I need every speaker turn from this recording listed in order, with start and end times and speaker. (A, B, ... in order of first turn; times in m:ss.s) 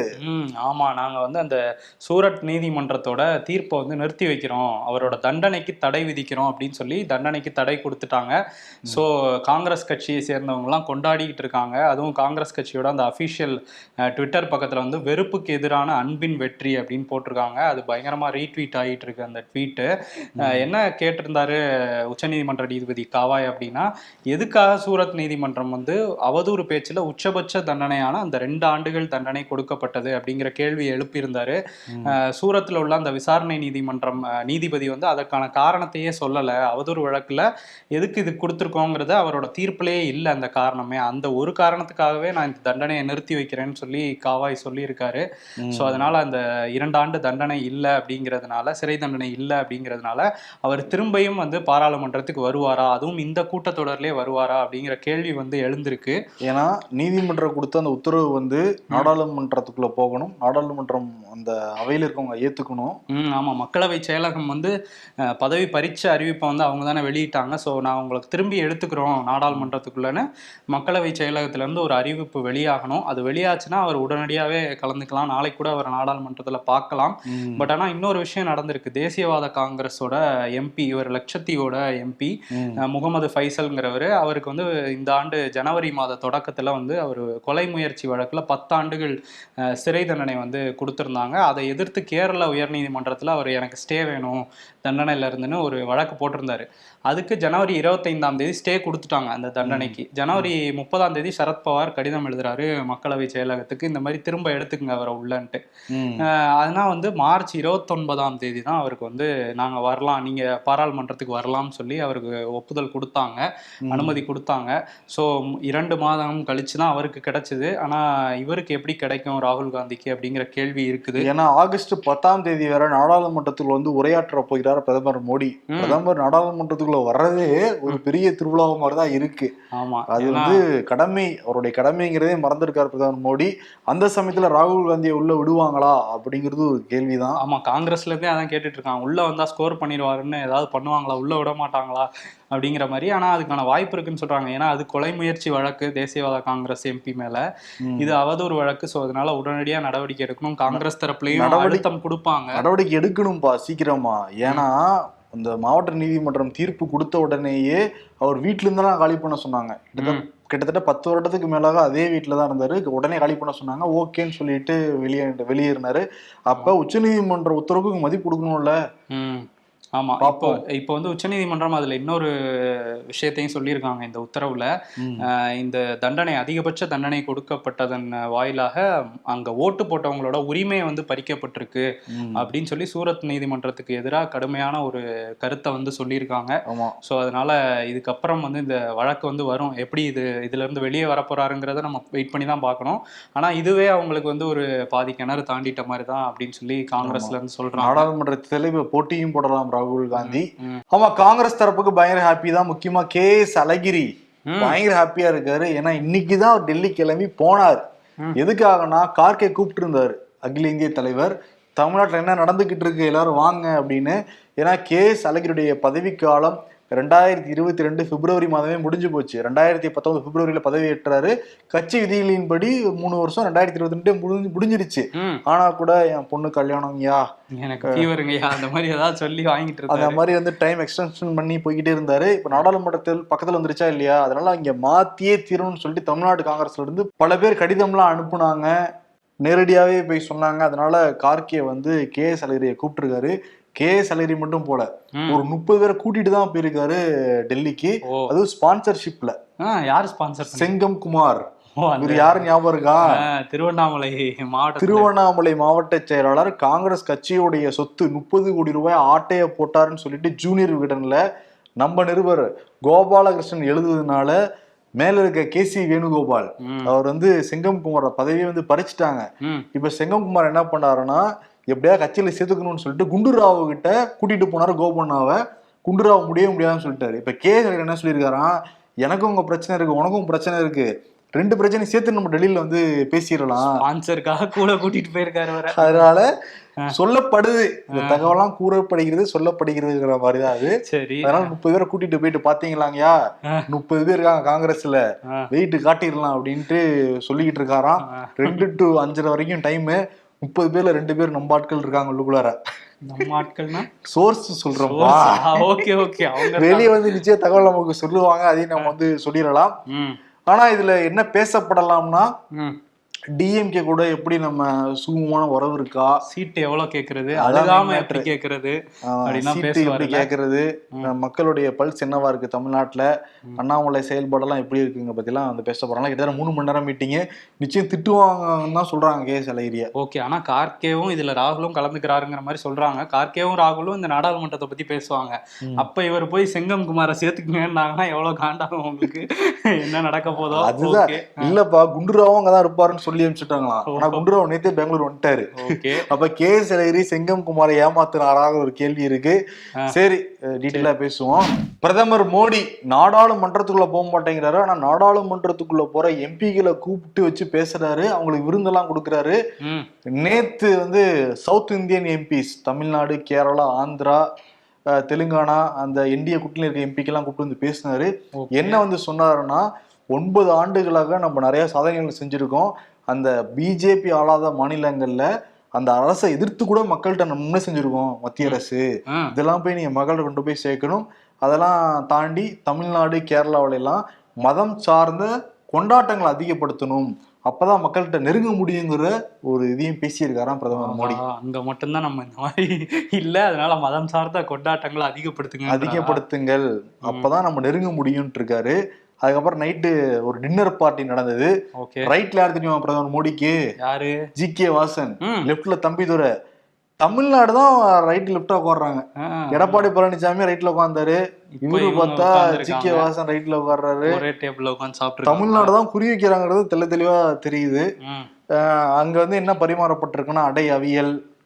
0:00.2-0:56.2 A
0:20.4-0:20.7 B
0:45.6-0:46.1 B
0:56.4-1:03.0 B
1:03.1-1:04.7 A
1:05.2-1:29.2 A
1:17.3-1:17.6 B
1:22.5-1:22.8 B
1:29.7-1:45.6 A
1:39.6-1:40.5 B
1:45.9-1:46.2 B
1:46.2-2:01.3 A
1:53.9-1:54.2 B
2:01.2-2:09.5 B
2:05.7-2:06.0 A
2:09.7-2:10.6 A
2:10.1-2:17.4 B
2:17.4-2:27.4 A
2:27.8-2:28.1 B
2:28.0-2:32.6 A
2:30.7-2:31.8 B
2:32.6-2:48.8 B
2:40.0-2:40.3 A
2:49.1-3:18.1 A
2:50.2-2:50.6 B
2:55.0-2:55.3 B
3:02.1-3:02.4 B
3:06.7-3:07.0 B
3:17.0-3:24.1 B
3:20.2-3:20.8 A
3:24.5-3:24.8 A
3:24.6-3:27.8 B
3:28.4-3:47.2 B
3:45.2-3:45.4 A
3:47.6-3:50.2 A
3:49.9-3:58.8 B
3:59.4-4:09.4 B
4:05.2-4:05.4 A
4:09.6-4:10.7 A
4:10.5-4:11.4 B
4:11.8-4:12.4 A
4:12.0-4:13.1 B
4:13.0-4:15.1 A
4:14.8-4:21.2 B
4:21.8-4:24.4 B
4:25.0-4:43.8 B
4:26.6-4:26.9 A
4:43.8-4:46.0 A
4:45.7-4:46.3 B
4:46.9-4:53.2 B
4:47.9-4:48.3 A
4:50.9-4:51.5 A
4:53.7-4:55.0 B
4:55.5-5:02.6 B
4:58.1-4:58.7 A
5:03.1-5:03.9 A
5:04.0-5:09.8 B
5:04.7-5:07.2 A
5:09.9-5:10.2 A
5:10.5-5:12.3 B
5:13.4-5:16.2 B
5:16.3-5:20.3 A
5:17.4-5:18.3 B
5:19.0-5:29.9 B
5:30.0-5:41.5 A
5:40.5-5:59.4 B
5:43.9-5:44.3 A
5:45.6-5:46.1 A
5:59.6-5:59.9 A
6:00.2-6:04.2 B
6:04.9-6:31.2 B
6:08.4-6:08.8 A
6:30.7-6:36.2 A
6:35.7-6:41.5 B
6:41.8-6:42.1 A
6:42.1-6:43.6 B
6:43.8-6:44.2 A
6:44.4-6:46.3 B
6:45.2-6:45.5 A
6:47.0-6:54.2 B
6:49.2-6:49.9 A
6:51.6-6:53.1 A
6:54.0-6:55.7 A
6:55.3-6:57.9 B
6:58.0-6:58.3 A
6:58.6-7:01.2 B